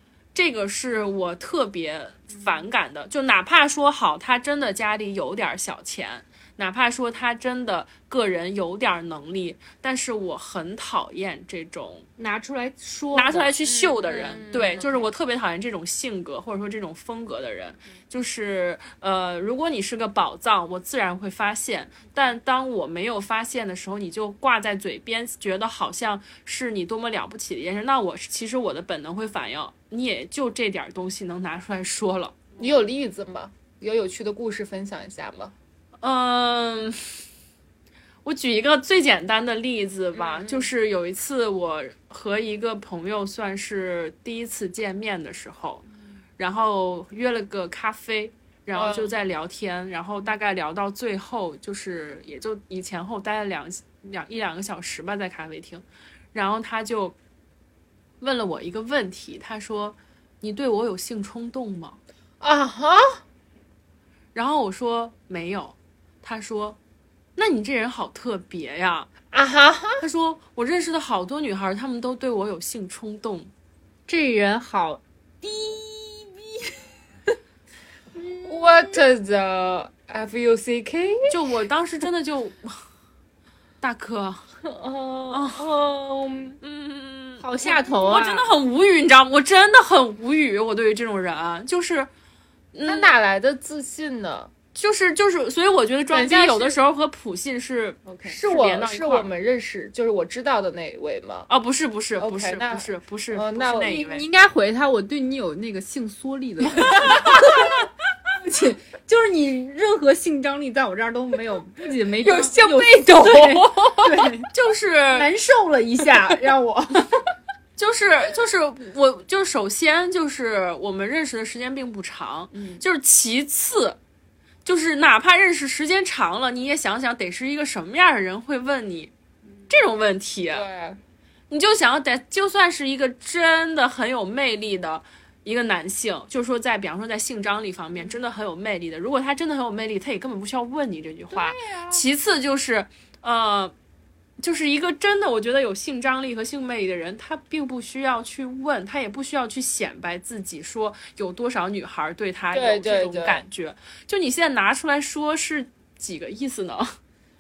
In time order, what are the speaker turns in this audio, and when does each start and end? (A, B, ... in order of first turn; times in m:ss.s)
0:00.4-0:12.1 A
0:12.2-0:13.6 B
0:13.1-0:32.5 A
0:13.6-0:15.0 C
0:32.6-0:35.5 C
0:36.0-0:37.0 A
0:38.2-0:45.8 A
0:40.2-0:40.7 C
0:46.4-0:57.2 A
0:48.7-0:49.2 C
0:58.2-1:02.0 A
1:02.4-1:03.2 C
1:04.3-1:06.8 A
1:07.4-1:09.1 A
1:09.3-1:10.0 C
1:10.0-1:13.5 A
1:14.1-1:16.8 B
1:18.2-1:19.0 B
1:18.4-1:21.4 C
1:21.3-1:22.8 A
1:23.8-1:24.5 A
1:24.6-1:26.6 C
1:25.3-1:25.7 A
1:26.6-1:32.1 A
1:27.4-1:28.5 B
1:32.7-1:33.2 A
1:32.8-1:34.5 C
1:34.8-1:39.3 A
1:36.1-1:36.8 C
1:38.1-1:38.3 B
1:38.3-1:41.5 C
1:41.5-1:44.2 A
1:42.2-1:44.0 C
1:43.8-1:47.7 B
1:46.9-1:47.4 A
1:47.1-1:47.4 C
1:48.4-1:54.5 B
1:52.2-1:54.2 C
1:54.5-1:55.3 A
1:55.1-1:57.2 B
1:57.8-2:04.0 A
2:04.6-2:09.1 A
2:09.7-2:10.7 A
2:10.5-2:11.0 C
2:11.5-2:23.7 A
2:21.3-2:22.0 C
2:24.4-2:37.0 A
2:32.5-2:33.4 C